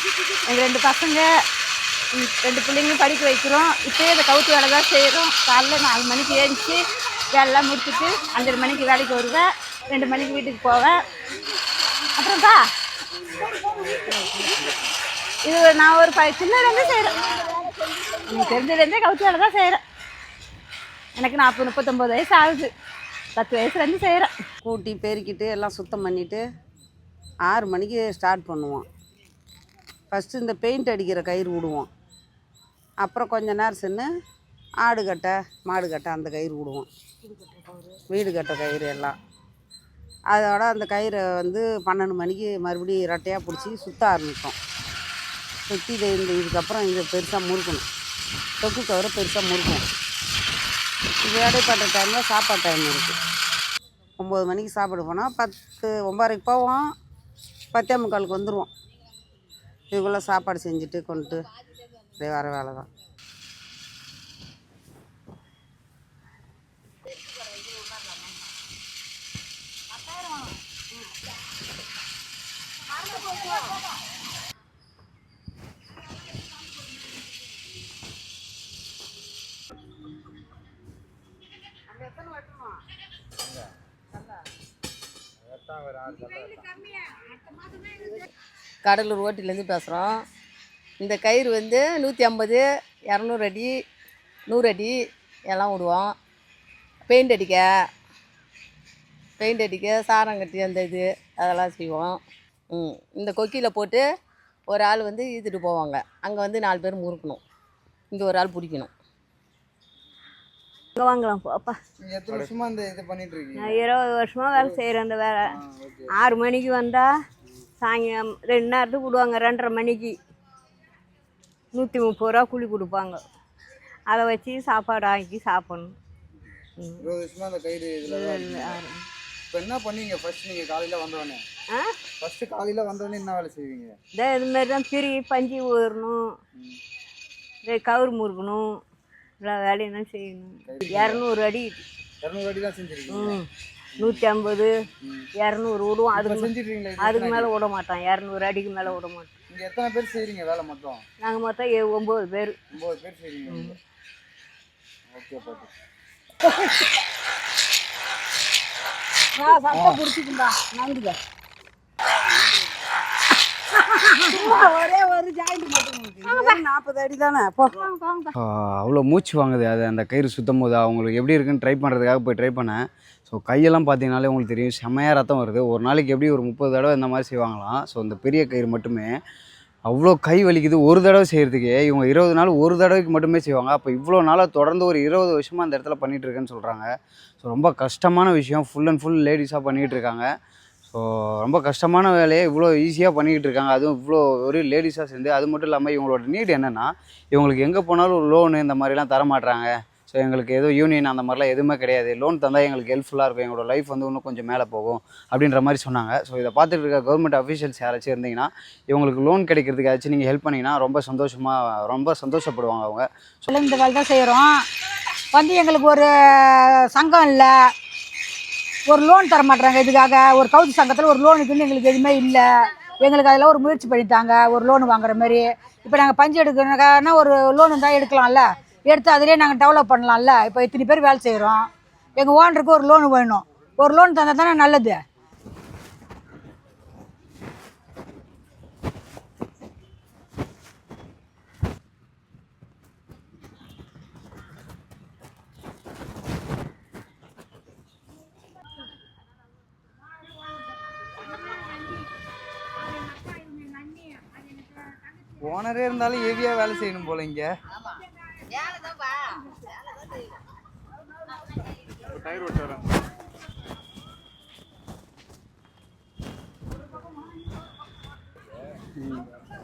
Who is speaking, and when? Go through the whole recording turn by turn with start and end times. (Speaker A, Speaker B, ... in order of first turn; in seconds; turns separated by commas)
Speaker A: 0.5-1.2, Speaker A: 2.1-6.8, Speaker A: 7.3-11.0, Speaker A: 12.2-12.6, Speaker A: 15.4-17.2, Speaker A: 18.3-19.8, Speaker A: 21.2-22.7, Speaker A: 23.4-24.3, Speaker B: 24.6-26.4, Speaker B: 27.5-28.9, Speaker B: 30.1-31.9, Speaker B: 33.0-34.1, Speaker B: 34.8-36.9, Speaker B: 38.1-39.1, Speaker B: 40.3-44.5, Speaker B: 45.7-47.8, Speaker B: 48.6-49.8, Speaker B: 51.2-53.1, Speaker B: 54.2-56.9, Speaker B: 57.7-58.7, Speaker B: 59.9-61.4, Speaker B: 62.2-62.9, Speaker C: 83.4-83.7, Speaker C: 85.4-86.8, Speaker D: 88.8-90.2, Speaker D: 91.0-93.7, Speaker D: 94.5-94.9, Speaker D: 95.5-96.2, Speaker D: 97.1-97.7, Speaker D: 99.4-102.2, Speaker D: 102.7-104.0, Speaker D: 104.7-107.4, Speaker D: 108.1-108.9, Speaker E: 111.0-111.8, Speaker C: 112.0-113.8, Speaker E: 113.6-115.4, Speaker C: 114.5-114.8, Speaker C: 115.5-116.1, Speaker E: 116.2-117.1, Speaker E: 117.8-120.1, Speaker E: 121.7-123.2, Speaker E: 124.1-125.9, Speaker E: 126.8-127.1, Speaker C: 127.0-128.8, Speaker E: 128.0-128.9, Speaker C: 129.5-131.4, Speaker C: 132.2-133.9, Speaker E: 134.2-136.2, Speaker E: 137.7-138.7, Speaker E: 139.4-141.8, Speaker C: 140.7-141.2, Speaker C: 142.2-143.4, Speaker E: 143.1-143.4, Speaker C: 144.0-144.2, Speaker E: 144.0-144.7, Speaker E: 145.4-149.3, Speaker C: 146.1-147.5, Speaker C: 149.5-151.0, Speaker E: 151.2-152.6, Speaker C: 152.7-153.7, Speaker E: 153.5-153.7, Speaker C: 155.1-155.7, Speaker F: 159.3-160.6, Speaker B: 160.8-161.1, Speaker B: 164.3-167.9, Speaker G: 168.4-179.1, Speaker G: 179.9-186.9, Speaker G: 187.4-190.2, Speaker G: 190.9-213.5, Speaker F: 213.5-214.6, Speaker F: 215.3-217.5, Speaker F: 218.9-235.0, Speaker C: 255.4-257.4